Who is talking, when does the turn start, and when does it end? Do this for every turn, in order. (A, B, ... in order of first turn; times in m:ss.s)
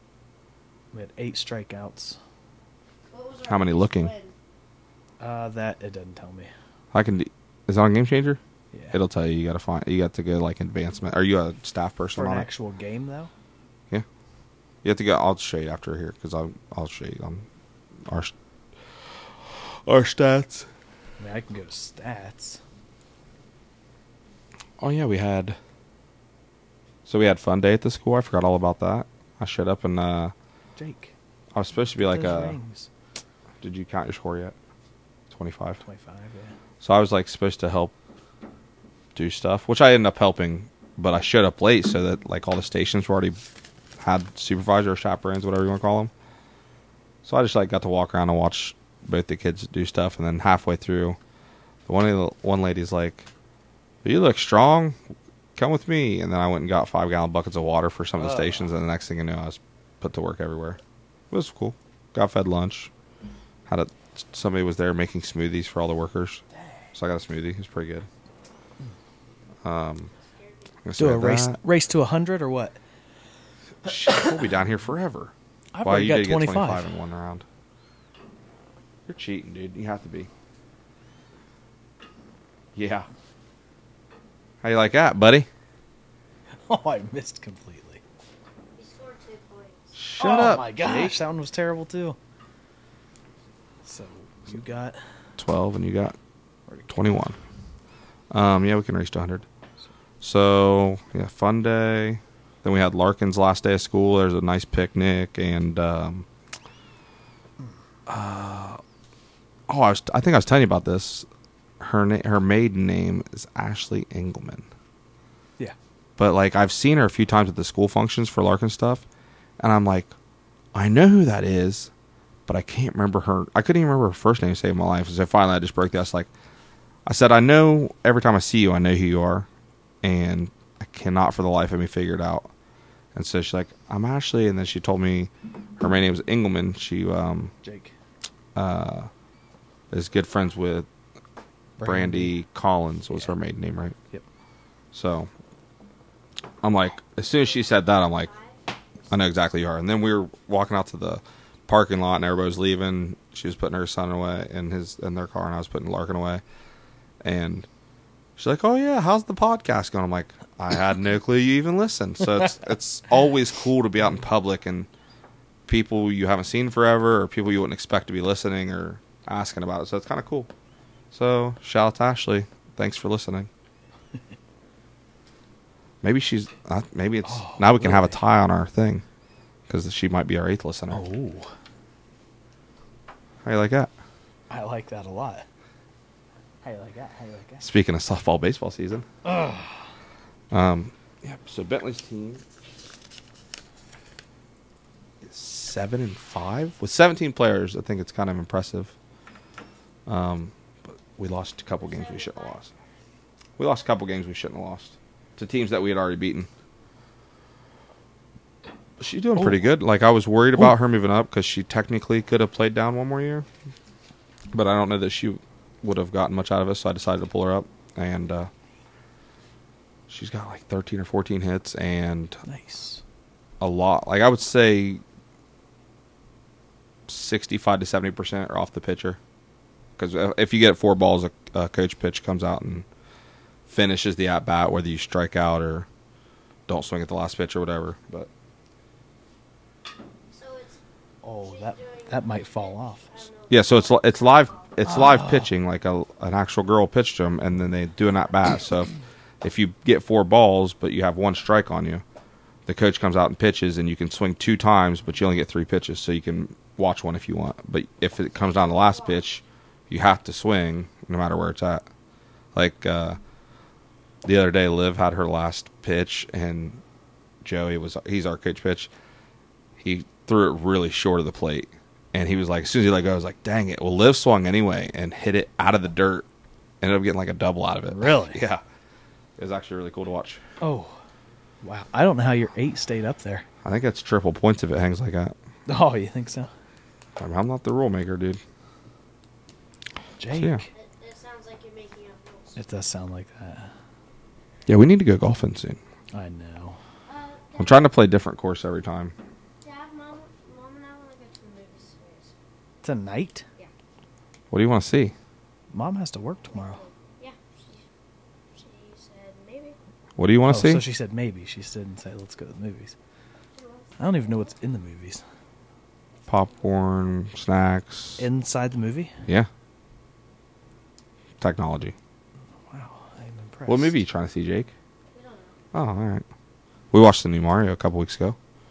0:00.9-0:02.2 A
0:03.1-0:04.3 B
0:03.4-0:04.1 C
0:05.2-0:06.5 A
0:06.9-0:08.4 C
0:08.7-0:09.0 A
0:08.9-0:12.5 C
0:12.1-0:13.3 A
0:14.8-0:17.5 C
0:18.1-0:18.3 C
0:18.9-0:20.7 C
0:21.2-0:22.6 A
0:24.8-0:25.6 C
0:27.0-0:30.3 C
0:30.8-0:31.1 A
0:31.5-0:32.6 C
0:32.0-0:32.9 A
0:33.6-0:34.5 C
0:35.3-0:35.8 C
0:35.8-0:36.5 A
0:36.8-0:37.9 C
0:39.1-0:43.4 C
0:44.0-0:46.1 C
0:47.2-0:51.2 C
0:51.9-0:53.3 C
0:54.0-0:55.0 C
0:55.6-1:00.8 C
0:58.2-0:58.7 A
1:01.3-1:02.9 C
1:03.7-1:06.4 C
1:06.9-1:08.1 C
1:09.6-1:10.1 C
1:10.2-1:10.7 B
1:10.8-1:11.6 C
1:11.0-1:12.8 A
1:13.8-1:17.4 C
1:15.7-1:16.9 A
1:19.1-1:20.3 C
1:22.7-1:23.1 C
1:24.6-1:25.5 C
1:26.7-1:28.0 A
1:28.8-1:30.0 B
1:29.9-1:31.2 C
1:30.2-1:32.2 A
1:33.8-1:35.0 A
1:35.4-1:36.2 C
1:36.7-1:36.9 A
1:36.9-1:37.4 C
1:38.3-1:39.4 C
1:40.2-1:46.3 C
1:48.1-1:48.8 C
1:49.7-1:51.3 C
1:51.8-1:54.7 C
1:56.2-1:59.0 C
1:59.6-2:00.1 C
2:00.7-2:01.9 C
2:02.5-2:06.3 C
2:07.0-2:09.5 C
2:10.0-2:12.5 C
2:13.1-2:17.5 C
2:17.6-2:17.9 A
2:18.5-2:19.1 C
2:19.9-2:20.9 C
2:21.8-2:22.3 A
2:21.8-2:24.0 C
2:24.9-2:25.3 C
2:26.6-2:28.3 C
2:28.0-2:29.2 B
2:29.1-2:36.4 C
2:37.2-2:37.7 C
2:38.4-2:44.9 C
2:45.7-2:50.5 C
2:51.1-2:53.5 C
2:56.0-2:59.0 C
2:57.2-2:58.2 A
2:59.7-3:01.0 C
3:00.9-3:01.5 A
3:03.4-3:03.9 C
3:04.5-3:05.4 A
3:06.6-3:07.7 A
3:07.6-3:09.0 C
3:09.2-3:09.8 A
3:10.5-3:12.4 C
3:15.2-3:18.9 C
3:20.1-3:22.7 C
3:21.8-3:22.6 B
3:23.6-3:26.5 C
3:29.0-3:33.5 C
3:34.5-3:38.5 C
3:40.1-3:42.4 C
3:42.4-3:43.0 A
3:43.6-3:45.0 C
3:47.1-3:49.2 C
3:50.0-3:52.8 C
3:53.7-3:55.9 C
3:56.7-3:58.3 C
4:00.3-4:00.8 B
4:01.2-4:03.2 A
4:01.4-4:04.8 B
4:03.5-4:12.0 C
4:04.9-4:05.4 A
4:12.7-4:21.8 C
4:18.4-4:19.3 B
4:22.5-4:23.2 C
4:24.2-4:26.8 C
4:27.4-4:28.9 C
4:29.8-4:36.2 C
4:36.8-4:38.6 C
4:37.9-4:38.4 A
4:39.4-4:40.4 C
4:40.6-4:41.0 A
4:41.6-4:43.4 A
4:43.6-4:45.3 C
4:45.7-4:46.5 A
4:47.2-4:48.4 C
4:50.2-4:50.7 A
4:50.3-4:50.6 C
4:50.7-4:52.6 B
4:52.6-4:53.7 A
4:54.7-4:55.8 C
4:56.1-4:56.8 A
4:57.1-4:57.9 B
4:57.6-4:59.1 C
4:59.6-5:02.3 B
5:02.8-5:03.4 A
5:04.5-5:05.1 C
5:05.7-5:06.8 A
5:06.5-5:07.8 B
5:08.6-5:09.8 B
5:10.2-5:10.8 C
5:10.5-5:12.9 A
5:13.5-5:14.5 B
5:14.0-5:15.2 A
5:16.3-5:18.2 C
5:18.2-5:19.2 A
5:21.4-5:21.9 C
5:22.7-5:24.0 A
5:23.7-5:24.7 C
5:25.1-5:25.6 B
5:25.7-5:26.2 C
5:26.9-5:28.4 C